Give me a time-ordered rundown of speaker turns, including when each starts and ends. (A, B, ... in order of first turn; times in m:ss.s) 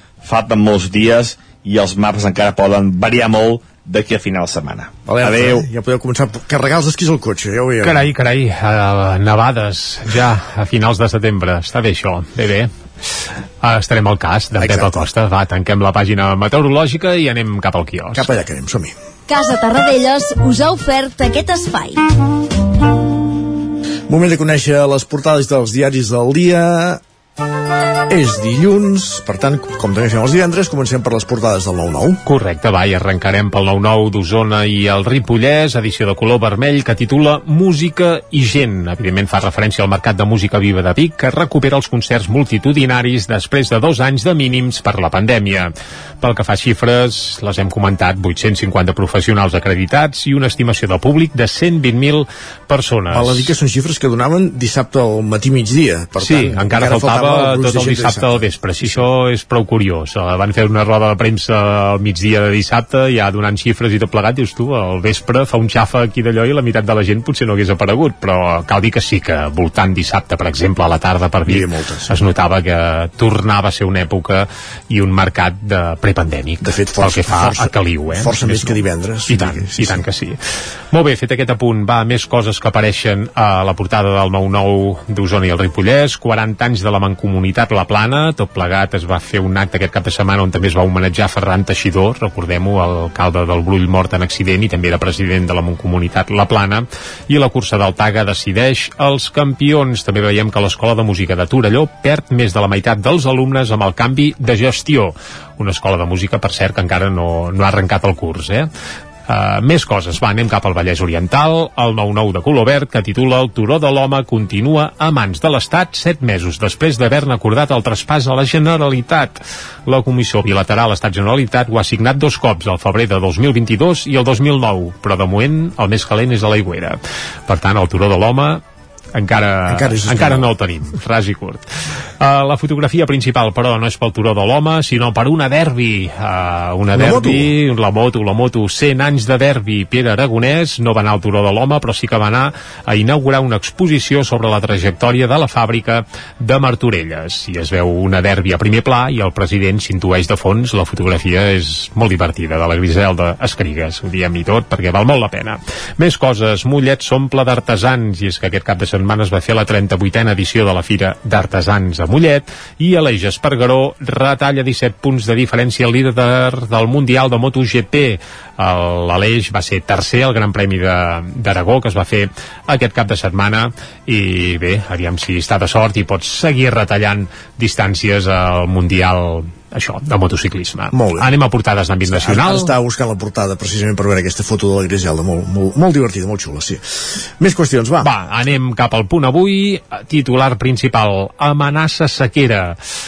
0:00.2-0:05.7 A
0:05.1-0:08.0 B
0:07.8-0:12.7 C
0:13.6-0:18.3 C
0:14.6-0:15.0 B
0:18.2-0:18.9 B
0:19.3-0:22.0 D
0:24.1-0:27.0 B
0:28.1-0:32.2 B
0:32.2-0:53.6 C
0:53.1-0:59.0 B
0:56.2-1:20.4 C
1:11.5-1:12.2 B
1:16.6-1:20.0 B
1:20.9-1:48.7 C
1:49.3-2:08.6 C
2:09.2-2:11.7 C
2:09.7-2:10.5 B
2:12.2-3:02.7 C
2:17.0-2:17.5 B
3:00.9-3:01.3 B
3:02.1-3:06.8 B
3:07.4-3:08.1 B
3:08.0-3:12.8 C